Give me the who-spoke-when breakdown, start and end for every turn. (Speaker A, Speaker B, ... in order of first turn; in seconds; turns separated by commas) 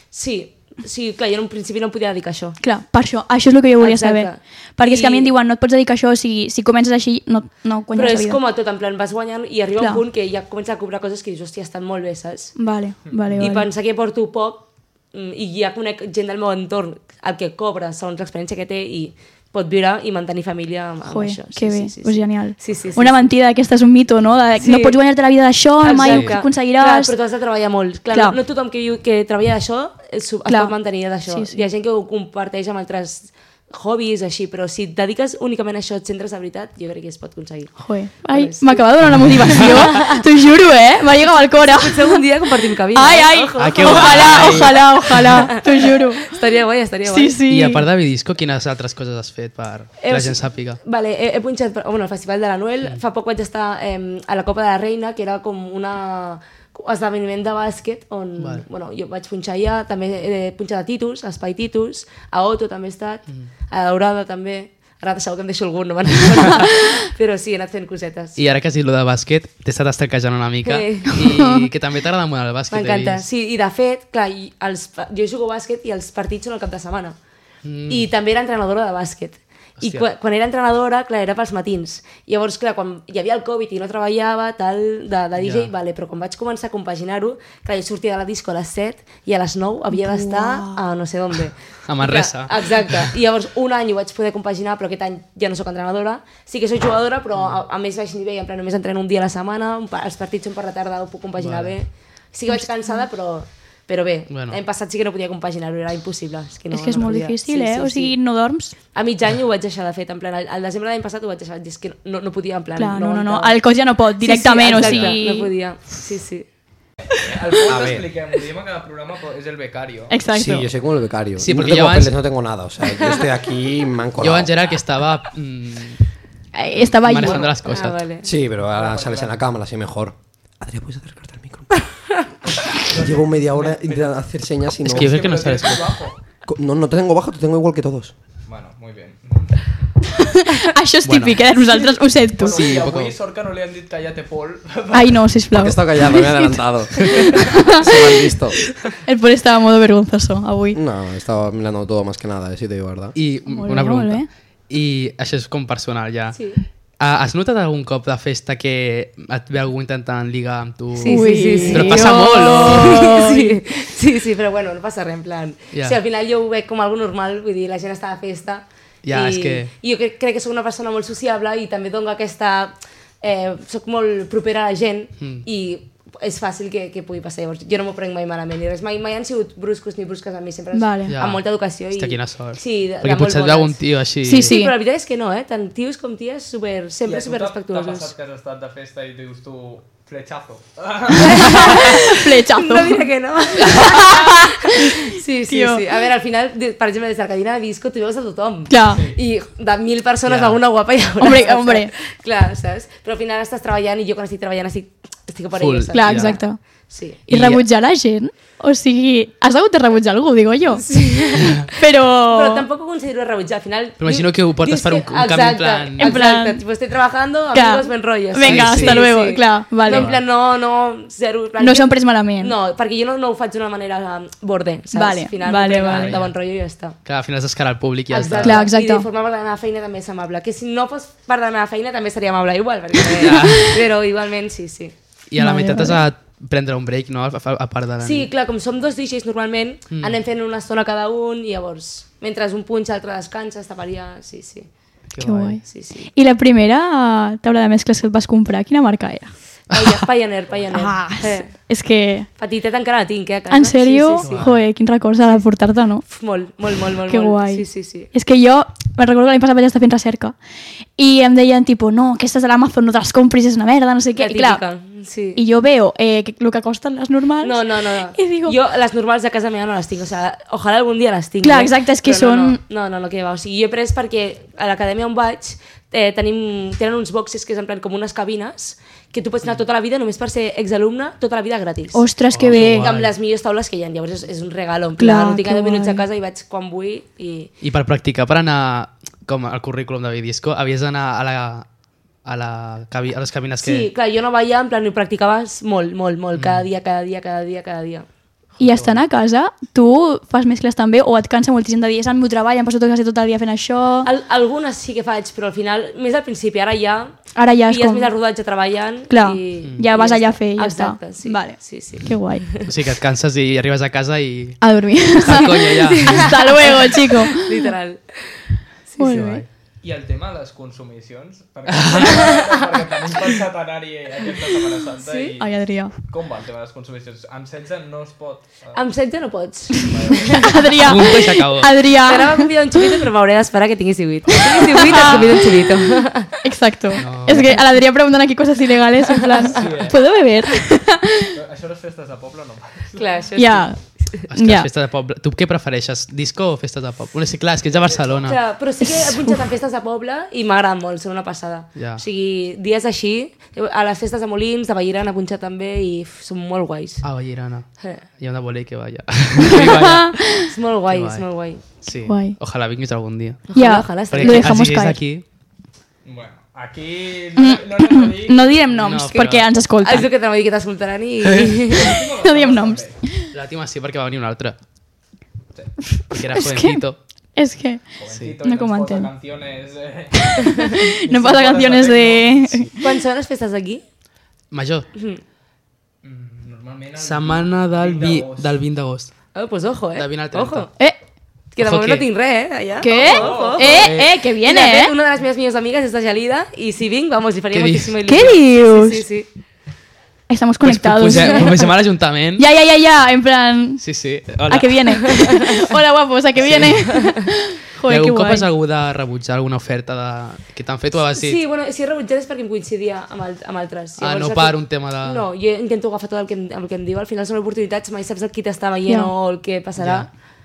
Speaker A: 0.1-2.6, Speaker B: 2.6-8.4, Speaker A: 3.8-5.3, Speaker A: 8.0-12.6, Speaker B: 12.6-13.7, Speaker C: 13.1-13.4, Speaker A: 13.4-23.2, Speaker B: 21.1-27.1, Speaker A: 24.6-25.0, Speaker A: 25.8-40.2, Speaker D: 26.0-26.4, Speaker B: 28.1-28.4, Speaker B: 30.5-31.7, Speaker B: 37.8-42.2, Speaker D: 39.1-39.7, Speaker A: 41.5-47.4, Speaker B: 42.9-46.4, Speaker D: 43.6-45.5, Speaker B: 47.1-47.8, Speaker D: 47.5-50.8, Speaker A: 50.0-68.4, Speaker D: 58.4-58.7, Speaker D: 68.4-73.3, Speaker A: 70.7-71.2, Speaker B: 71.2-71.6, Speaker A: 72.7-77.2, Speaker D: 77.6-78.1, Speaker A: 77.9-108.2, Speaker D: 79.8-80.1, Speaker D: 85.4-85.7, Speaker B: 89.9-90.8, Speaker D: 91.9-93.1, Speaker D: 101.4-101.8, Speaker B: 102.5-103.0, Speaker D: 104.3-104.6, Speaker B: 106.7-108.8, Speaker A: 108.9-113.6, Speaker B: 112.8-115.5, Speaker A: 114.2-116.5, Speaker D: 114.7-115.2, Speaker C: 117.1-120.2, Speaker E: 117.7-118.1, Speaker B: 120.1-120.7, Speaker E: 120.3-124.6, Speaker D: 121.4-122.2, Speaker A: 123.0-123.2, Speaker D: 124.2-126.0, Speaker B: 126.5-127.6, Speaker D: 126.8-128.0, Speaker C: 127.2-127.5, Speaker A: 127.6-128.3, Speaker E: 128.2-131.8, Speaker C: 128.6-129.4, Speaker E: 132.7-135.5, Speaker C: 132.7-136.2, Speaker D: 134.8-135.8, Speaker E: 136.5-138.1, Speaker C: 138.5-139.7, Speaker B: 140.2-142.6, Speaker D: 141.0-141.4, Speaker C: 142.4-145.3, Speaker D: 142.4-143.2, Speaker B: 144.9-148.2, Speaker E: 145.5-148.7, Speaker B: 149.1-150.8, Speaker E: 150.7-153.2, Speaker D: 153.2-156.4, Speaker B: 153.4-154.3, Speaker A: 156.3-156.6, Speaker D: 157.0-163.2, Speaker A: 160.9-188.1, Speaker B: 161.1-163.6, Speaker D: 165.7-166.0, Speaker D: 169.0-169.7, Speaker D: 175.2-175.4, Speaker B: 180.7-181.2, Speaker D: 181.1-184.6, Speaker B: 184.2-184.8, Speaker C: 187.0-192.0, Speaker A: 191.2-207.2, Speaker B: 191.4-193.1, Speaker B: 193.6-195.8, Speaker B: 198.7-199.0, Speaker C: 198.9-199.2, Speaker D: 200.2-200.6, Speaker B: 201.2-201.9, Speaker D: 205.6-206.4, Speaker B: 205.9-206.6, Speaker B: 207.3-211.0, Speaker D: 207.3-207.7, Speaker A: 210.7-227.0, Speaker B: 211.6-212.7, Speaker D: 214.0-216.2, Speaker B: 216.0-216.6, Speaker B: 217.5-220.2, Speaker D: 218.4-219.1, Speaker D: 219.9-220.2, Speaker B: 221.6-222.5, Speaker B: 224.9-226.2, Speaker D: 225.9-226.3, Speaker D: 227.1-228.7, Speaker A: 228.1-234.9, Speaker B: 228.4-229.1, Speaker D: 233.0-233.9, Speaker D: 235.3-238.3, Speaker B: 235.4-236.0, Speaker A: 238.0-244.7, Speaker D: 239.9-240.2, Speaker D: 245.1-245.6, Speaker B: 245.2-249.3, Speaker A: 245.7-246.1, Speaker A: 249.7-251.5, Speaker D: 249.7-250.0, Speaker B: 250.7-252.3, Speaker A: 252.4-254.4, Speaker B: 253.5-256.1, Speaker D: 254.2-254.6, Speaker A: 256.1-258.1, Speaker B: 257.1-260.4, Speaker B: 261.0-264.6, Speaker A: 264.2-265.4, Speaker B: 265.4-268.6, Speaker A: 267.4-287.5, Speaker B: 271.4-272.6, Speaker B: 281.9-282.9, Speaker D: 282.3-283.1, Speaker B: 285.0-286.1, Speaker D: 287.6-291.7, Speaker D: 292.2-293.9, Speaker A: 293.6-298.1, Speaker D: 296.4-296.7, Speaker D: 298.6-299.0, Speaker B: 298.6-304.1, Speaker A: 304.0-312.7, Speaker B: 307.4-308.1, Speaker B: 309.1-312.4, Speaker D: 309.6-309.9, Speaker D: 312.6-316.4, Speaker B: 314.6-317.7, Speaker A: 315.3-318.2, Speaker A: 318.9-319.3, Speaker B: 319.0-319.4, Speaker D: 319.1-319.5, Speaker C: 319.8-328.9, Speaker D: 321.7-322.3, Speaker A: 322.0-322.4, Speaker A: 325.0-325.4, Speaker B: 325.4-325.9, Speaker A: 328.7-330.6, Speaker C: 329.8-330.6, Speaker B: 330.4-333.0, Speaker D: 330.8-331.8, Speaker A: 332.0-336.4, Speaker B: 334.5-335.6, Speaker D: 335.0-335.8, Speaker B: 336.4-341.3, Speaker D: 337.0-337.6, Speaker A: 337.3-337.6, Speaker C: 339.5-340.0, Speaker C: 341.3-343.1, Speaker A: 343.0-344.2, Speaker B: 343.4-344.7, Speaker D: 344.3-348.4, Speaker C: 347.7-348.4, Speaker A: 348.2-357.1, Speaker B: 348.8-349.4, Speaker D: 351.8-352.0, Speaker D: 357.0-360.3, Speaker B: 359.5-360.5, Speaker A: 360.4-361.6, Speaker D: 360.9-365.2, Speaker B: 362.0-362.4, Speaker A: 363.5-364.6, Speaker B: 363.6-365.0, Speaker C: 366.0-368.6, Speaker B: 367.4-370.1, Speaker D: 368.7-370.1, Speaker A: 369.1-372.0, Speaker C: 371.6-373.0, Speaker B: 372.2-373.3, Speaker D: 373.3-374.6, Speaker B: 376.0-376.8, Speaker D: 376.1-377.0, Speaker B: 377.4-379.1, Speaker C: 378.0-382.7, Speaker B: 380.6-382.8, Speaker A: 382.8-383.8, Speaker D: 384.5-384.9, Speaker A: 384.9-385.2, Speaker C: 386.0-388.6, Speaker D: 387.0-389.1, Speaker A: 389.4-390.7, Speaker D: 389.9-390.7, Speaker A: 391.5-399.3, Speaker D: 391.6-392.1, Speaker B: 392.8-394.9, Speaker C: 392.9-393.9, Speaker D: 393.7-394.2, Speaker D: 397.5-397.9, Speaker B: 398.1-399.1, Speaker B: 400.3-408.5, Speaker D: 400.6-402.5, Speaker D: 403.8-405.1, Speaker D: 406.4-407.1, Speaker A: 406.9-407.2, Speaker D: 407.9-411.4, Speaker A: 411.1-420.1, Speaker D: 414.0-415.3, Speaker B: 418.9-419.1, Speaker D: 419.8-420.1